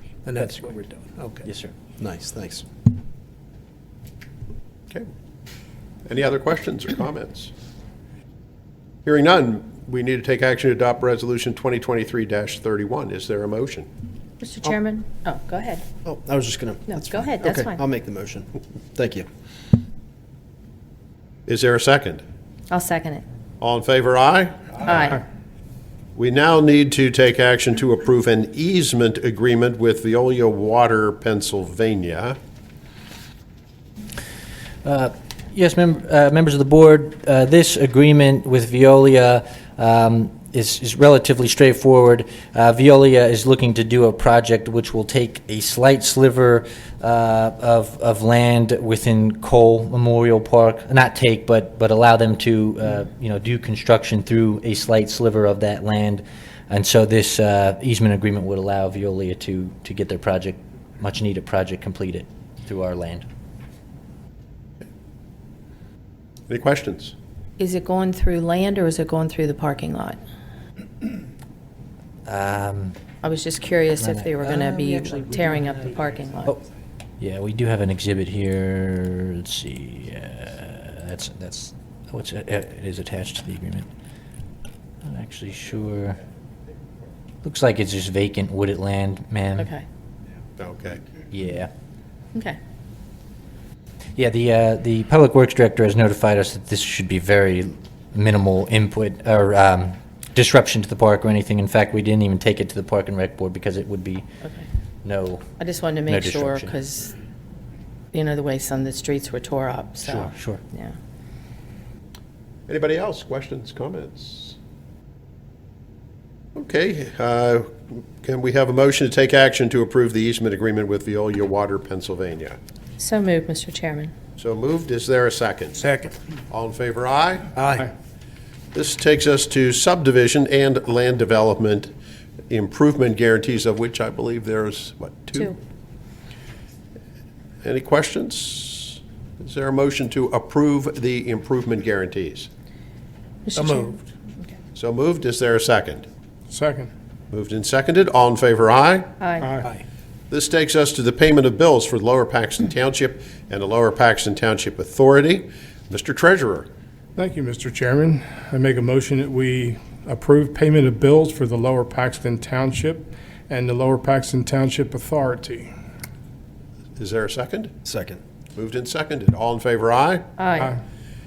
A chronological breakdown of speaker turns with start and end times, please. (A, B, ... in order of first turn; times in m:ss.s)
0:00.2-0:01.5 A
0:01.4-0:01.7 B
0:02.0-0:02.7 C
0:06.1-0:07.5 D
0:09.0-0:13.9 D
0:14.4-0:15.8 E
0:16.0-0:19.3 C
0:16.9-0:17.8 E
0:21.5-0:22.2 D
0:22.7-0:23.2 E
0:23.6-0:25.0 D
0:24.8-0:25.2 E
0:26.2-0:32.4 D
0:34.8-1:03.3 B
1:06.5-1:07.1 D
1:07.6-1:10.2 E
1:12.3-1:13.0 B
1:13.2-1:16.5 E
1:14.0-1:16.6 B
1:17.2-1:23.9 B
1:25.0-1:26.2 B
1:27.4-1:29.7 B
1:29.6-1:29.8 E
1:30.6-1:31.0 D
1:31.3-1:31.7 B
1:34.2-1:44.3 B
1:45.0-1:45.5 B
1:45.6-1:47.1 E
1:46.1-1:46.8 B
1:48.1-1:51.0 E
1:50.0-1:50.6 B
1:52.7-1:54.6 D
1:56.6-2:02.6 D
2:03.0-2:04.1 E
2:04.4-2:05.8 D
2:05.8-2:06.1 A
2:06.5-2:07.6 D
2:08.7-2:11.9 D
2:12.5-2:15.5 D
2:17.6-2:22.5 D
2:23.5-2:24.0 E
2:23.6-2:24.0 A
2:24.8-2:26.1 D
2:26.5-2:26.9 F
2:27.3-2:29.1 D
2:29.2-2:29.5 E
2:29.4-2:29.7 F
2:30.3-2:36.7 D
2:37.2-2:45.7 F
2:47.0-2:47.7 D
2:47.8-2:48.2 C
2:48.6-2:50.2 D
2:50.4-2:50.8 E